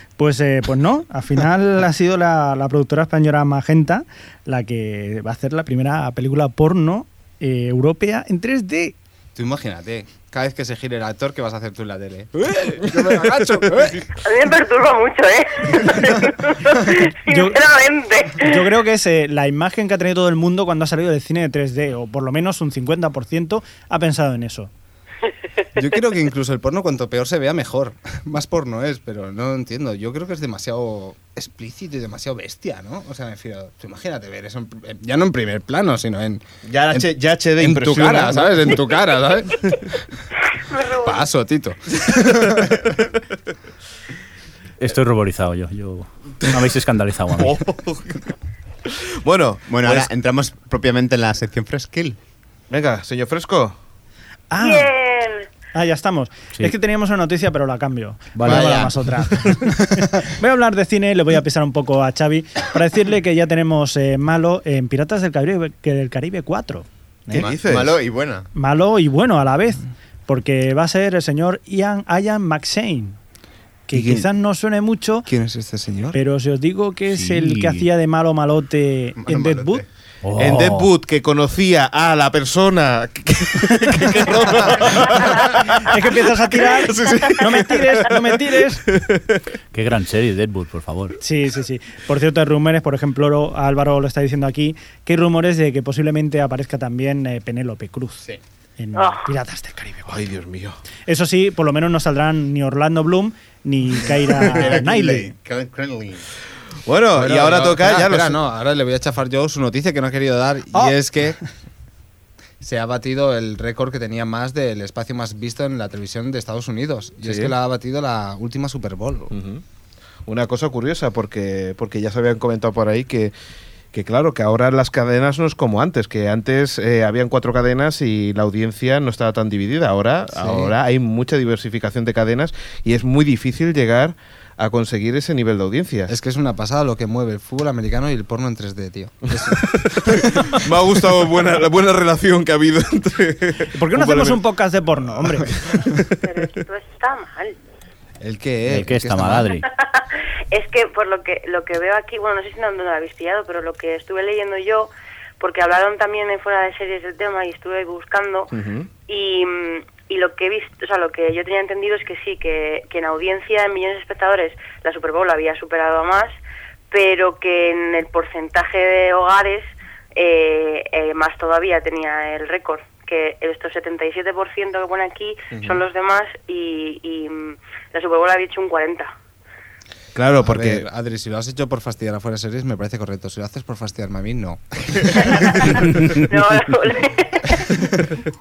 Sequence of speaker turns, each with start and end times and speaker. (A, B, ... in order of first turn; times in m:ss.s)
0:00.2-0:08.9 A
0:09.3-0:14.0 B
0:14.2-0:18.6 C
0:17.3-0:17.6 A
0:18.4-0:24.7 A
0:25.7-0:37.0 B
0:36.6-0:38.8 D
0:37.6-0:39.7 B
0:40.6-0:41.2 C
0:41.0-0:42.8 B
0:44.8-0:47.6 E
0:47.4-0:48.2 D
0:49.2-0:50.1 D
0:49.7-0:52.2 F
0:52.7-0:53.8 D
0:54.5-0:54.9 A
0:54.6-0:55.5 C
0:55.7-1:07.5 A
0:58.3-0:58.8 E
0:58.4-0:59.0 F
1:07.3-1:08.5 F
1:07.3-1:07.9 D
1:08.5-1:13.2 A
1:13.9-1:15.3 A
1:14.0-1:14.2 B
1:15.3-1:16.2 B
1:16.1-1:19.8 A
1:17.1-1:17.8 E
1:19.2-1:19.8 F
1:20.2-1:20.9 E
1:20.4-1:29.4 D
1:25.8-1:28.8 A
1:29.7-1:31.2 E
1:31.2-1:38.2 A
1:38.8-1:40.1 A
1:38.9-1:39.3 C
1:40.0-1:40.8 D
1:41.0-1:45.3 A
1:44.5-1:46.2 F
1:46.8-1:48.4 D
1:47.1-1:51.4 B
1:52.6-1:59.3 B
1:57.2-1:57.5 D
1:59.3-1:59.6 D
2:00.2-2:03.3 D
2:03.9-2:16.1 D
2:10.3-2:10.7 B
2:16.1-2:20.3 B
2:19.4-2:24.4 D
2:23.7-2:25.6 A
2:25.4-2:26.1 D
2:26.2-2:27.6 C
2:28.2-2:29.5 B
2:28.7-2:29.6 E
2:29.6-2:38.5 C
2:38.5-2:38.9 D
2:39.1-2:46.3 C
2:46.9-2:59.1 C
3:00.1-3:00.8 D
3:00.4-3:06.2 B
3:05.3-3:07.8 C